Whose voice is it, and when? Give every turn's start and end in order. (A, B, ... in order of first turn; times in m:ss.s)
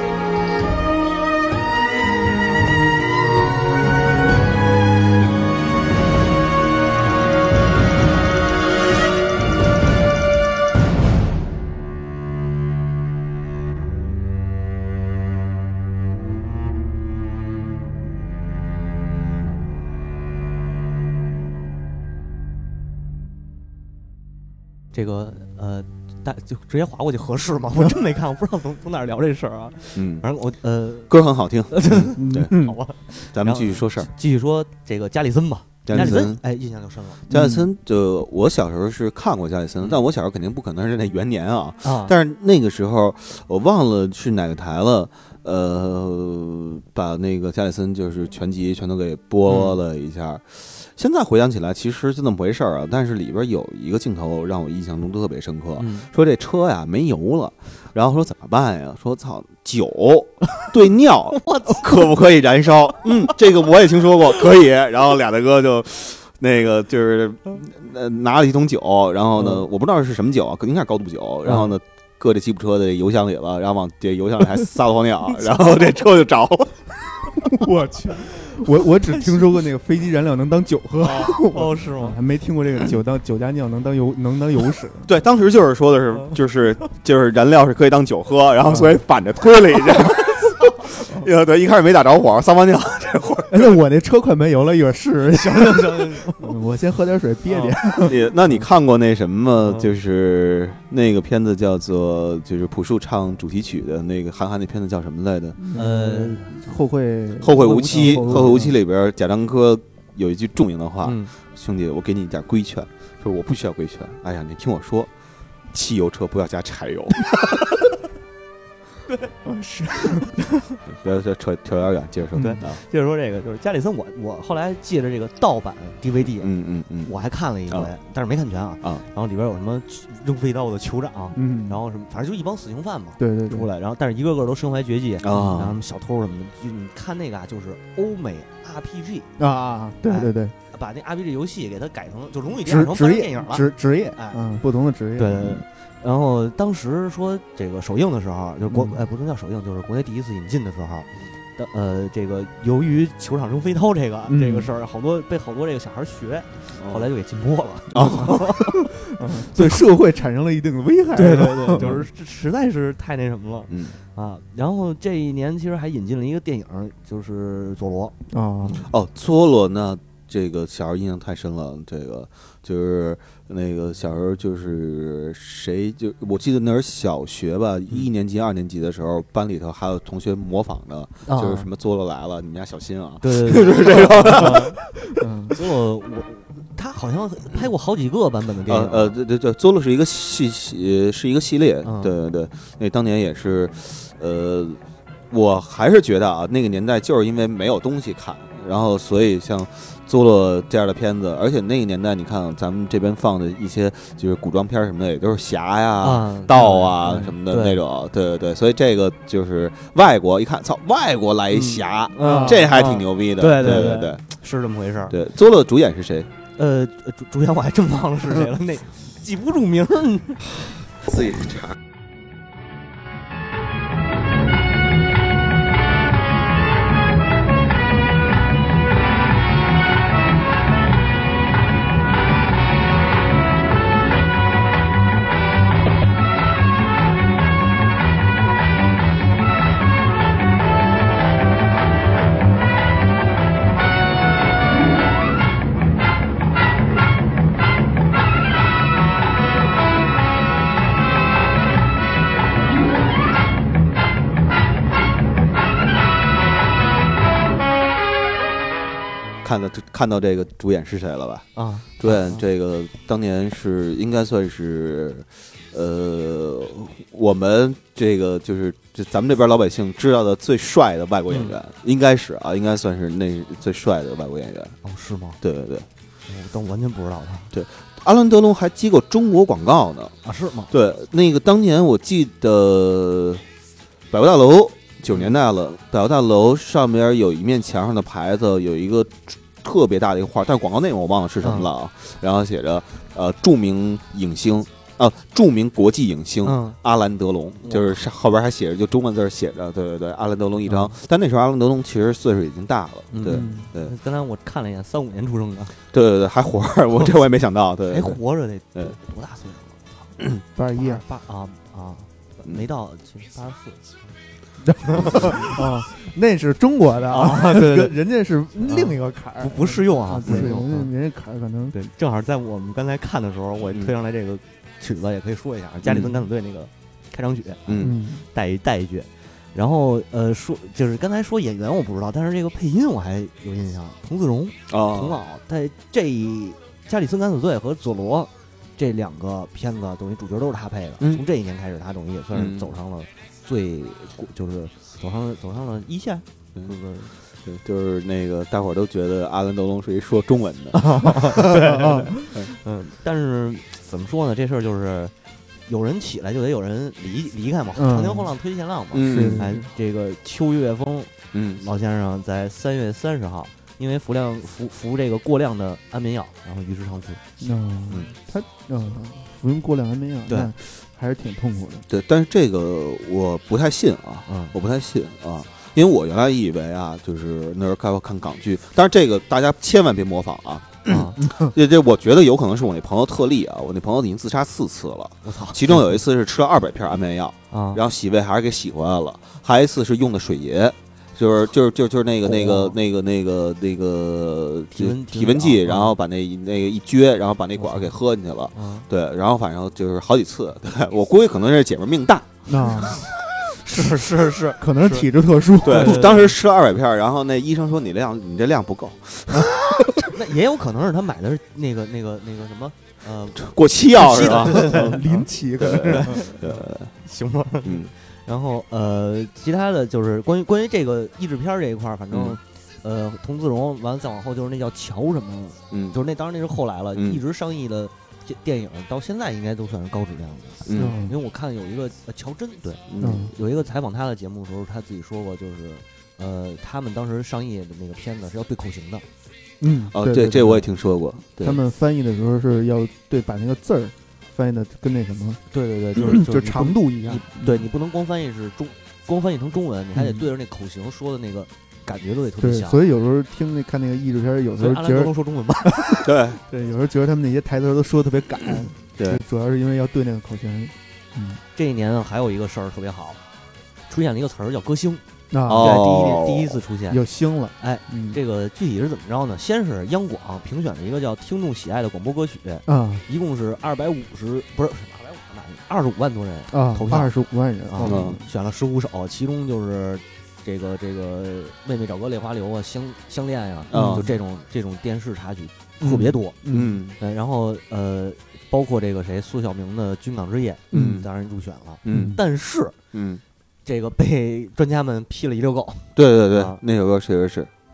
0:24.9-0:31.1 A
0:29.9-0:30.2 B
0:31.1-0:32.5 B
0:31.7-0:37.2 A
0:32.2-0:32.8 C
0:33.3-0:34.1 B
0:35.8-0:36.4 B
0:37.3-0:37.7 C
0:37.3-1:16.9 B
0:41.8-0:42.1 A
0:49.5-0:49.8 A
0:55.8-0:56.1 A
1:01.3-1:02.1 A
1:17.4-1:25.1 C
1:18.8-1:19.5 A
1:21.0-1:22.2 A
1:25.0-1:33.8 B
1:28.7-1:29.0 C
1:33.5-1:38.3 C
1:35.3-1:36.5 A
1:37.4-1:37.8 A
1:38.0-1:45.7 B
1:45.6-1:48.7 C
1:45.7-1:46.5 A
1:47.4-1:55.1 B
1:47.6-1:48.7 A
1:51.0-1:51.3 A
1:55.7-1:57.4 B
1:59.4-2:00.4 C
2:00.8-2:02.8 B
2:02.3-2:06.5 A
2:02.4-2:02.6 C
2:06.2-2:07.1 B
2:07.0-2:19.3 A
2:11.3-2:11.8 C
2:13.2-2:13.7 C
2:15.2-2:15.7 B
2:15.3-2:15.7 C
2:19.4-2:20.5 C
2:20.0-2:24.4 A
2:22.6-2:25.6 C
2:25.2-2:39.8 A
2:28.7-2:29.0 C
2:34.3-2:34.7 C
2:36.7-2:37.1 B
2:37.9-2:38.5 B
2:38.0-2:42.0 C
2:41.1-2:48.8 A
2:41.8-2:42.0 B
2:43.7-2:44.0 B
2:48.3-2:48.8 C
2:48.8-3:04.7 B
3:01.2-3:01.7 A
3:03.2-3:04.8 A
3:05.2-3:05.6 C
3:05.5-3:09.2 A
3:08.6-3:34.2 B
3:11.8-3:12.2 A
3:26.0-3:27.8 A
3:31.5-3:35.2 A
3:32.2-3:32.6 C
3:35.1-3:36.3 B
3:36.6-3:40.7 A
3:41.1-3:41.7 B
4:19.4-4:21.5 B
4:21.5-4:22.4 A
4:22.0-4:34.8 B
4:31.3-4:31.6 A
4:34.8-4:35.4 A
4:35.4-4:35.9 B
4:36.3-4:37.5 A
4:37.5-4:40.1 B
4:40.2-4:40.7 A
4:40.7-4:43.4 B
4:44.1-5:03.9 B
4:51.4-4:51.7 A
4:56.4-4:56.8 A
4:57.6-4:58.0 A
5:00.7-5:00.9 A
5:03.1-5:05.8 A
5:03.2-5:03.7 C
5:05.9-5:08.2 B
5:07.9-5:10.1 A
5:10.5-5:11.0 C
5:10.7-5:14.0 A
5:14.7-5:21.8 C
5:14.8-5:15.6 A
5:17.1-5:17.9 A
5:18.6-5:20.9 A
5:20.2-5:20.6 B
5:21.7-5:47.1 A
5:25.8-5:26.1 B
5:27.6-5:28.0 B
5:27.8-5:28.2 C
5:34.7-5:35.2 B
5:42.3-5:42.7 B
5:47.4-5:51.5 B
5:50.7-5:55.1 A
5:55.7-6:07.2 A
5:57.8-5:58.3 C
5:58.9-5:59.6 B
5:59.0-5:59.7 C
6:01.3-6:01.6 B
6:07.4-6:11.8 C
6:10.3-6:10.5 A
6:11.9-6:43.1 B
6:14.3-6:14.5 A
6:20.8-6:21.2 A
6:21.2-6:21.5 C
6:25.2-6:26.0 A
6:27.5-6:27.8 A
6:32.2-6:32.8 A
6:34.7-6:36.0 A
6:37.6-6:38.0 A
6:38.5-6:38.9 A
6:42.4-6:43.0 C
6:43.5-6:46.3 A
6:44.5-6:46.2 C
6:45.6-6:50.0 B
6:50.1-7:19.0 A
6:53.4-6:56.9 B
6:54.1-6:56.4 C
6:57.6-6:57.9 B
7:02.1-7:02.4 B
7:05.7-7:06.0 B
7:06.9-7:07.2 B
7:10.6-7:11.0 B
7:10.7-7:11.2 C
7:12.9-7:13.3 B
7:13.0-7:13.3 C
7:19.6-7:20.7 C
7:19.9-7:21.6 B
7:21.4-7:25.4 C
7:25.5-7:32.8 A
7:25.9-7:27.6 C
7:30.0-7:30.3 C
7:32.4-7:41.4 C
7:34.6-7:35.7 A
7:36.0-7:36.4 B
7:39.0-7:39.2 B
7:41.5-7:43.2 A
7:43.9-7:45.0 A
7:45.3-7:45.8 C
7:45.4-7:46.6 B
7:45.6-7:47.0 A
7:46.9-7:48.2 C
7:47.6-7:57.1 A
7:52.6-7:53.0 C
7:56.5-7:58.2 C
7:57.6-8:06.4 A
7:57.8-7:58.2 B
8:03.7-8:04.1 B
8:03.7-8:04.1 C
8:05.8-8:06.8 C
8:06.5-8:07.0 B
8:07.0-8:12.8 A
8:10.7-8:11.1 B
8:11.8-8:12.2 B
8:11.9-8:12.2 C
8:12.9-8:13.2 B
8:13.6-8:16.6 A
8:15.9-8:17.5 B